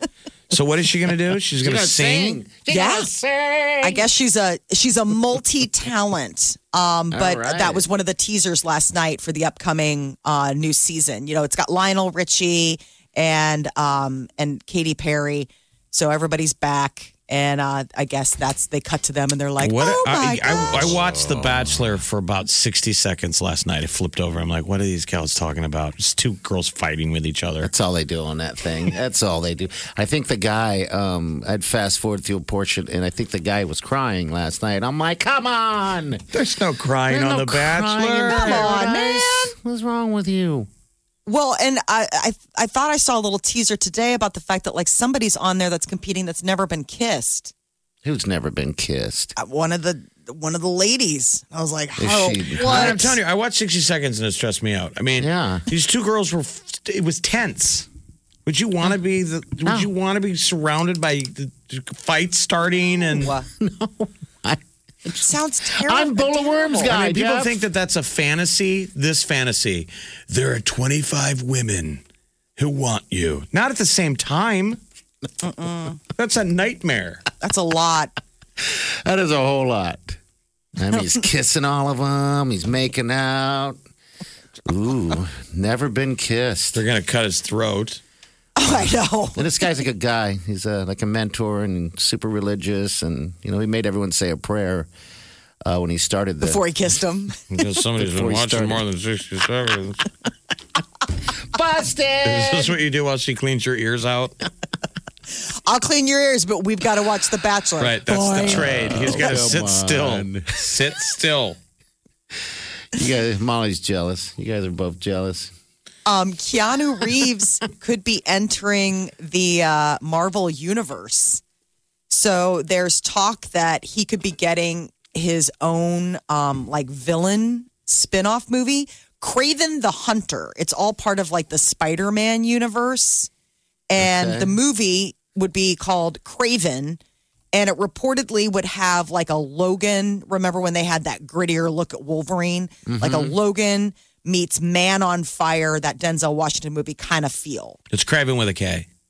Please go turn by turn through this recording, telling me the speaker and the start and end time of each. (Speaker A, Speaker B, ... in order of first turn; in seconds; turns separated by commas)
Speaker A: 0.5-2.4, Speaker B: 1.6-4.0, Speaker C: 2.7-3.1, Speaker C: 3.8-20.9, Speaker B: 7.1-7.8, Speaker A: 19.6-27.7, Speaker B: 20.7-21.9, Speaker B: 27.6-36.3, Speaker A: 36.3-38.7, Speaker B: 37.1-40.7, Speaker C: 38.3-39.5, Speaker C: 41.3-47.5, Speaker B: 48.0-49.3, Speaker C: 49.4-53.1, Speaker B: 52.0-53.2, Speaker A: 52.6-57.9, Speaker B: 55.2-55.6, Speaker A: 58.5-63.3, Speaker B: 59.6-59.9, Speaker C: 63.2-63.5, Speaker B: 63.6-67.6, Speaker C: 65.2-66.9, Speaker A: 66.8-72.0, Speaker A: 72.6-74.8, Speaker C: 75.4-76.0, Speaker A: 76.2-77.2, Speaker C: 77.4-78.1, Speaker B: 78.6-80.2, Speaker B: 80.8-83.8, Speaker B: 84.7-86.8, Speaker A: 86.7-88.0, Speaker C: 88.6-89.7, Speaker B: 88.7-94.9, Speaker B: 95.6-96.6, Speaker C: 96.4-97.4, Speaker A: 97.5-100.0, Speaker B: 98.0-98.8, Speaker B: 101.5-102.8, Speaker A: 102.2-104.3, Speaker C: 105.7-109.4, Speaker A: 107.8-111.6, Speaker B: 108.3-110.7, Speaker B: 112.9-115.5, Speaker C: 116.1-121.4, Speaker C: 122.1-133.3, Speaker C: 133.9-137.0, Speaker B: 134.0-134.6, Speaker C: 137.5-147.8, Speaker B: 142.9-143.4, Speaker A: 147.9-148.9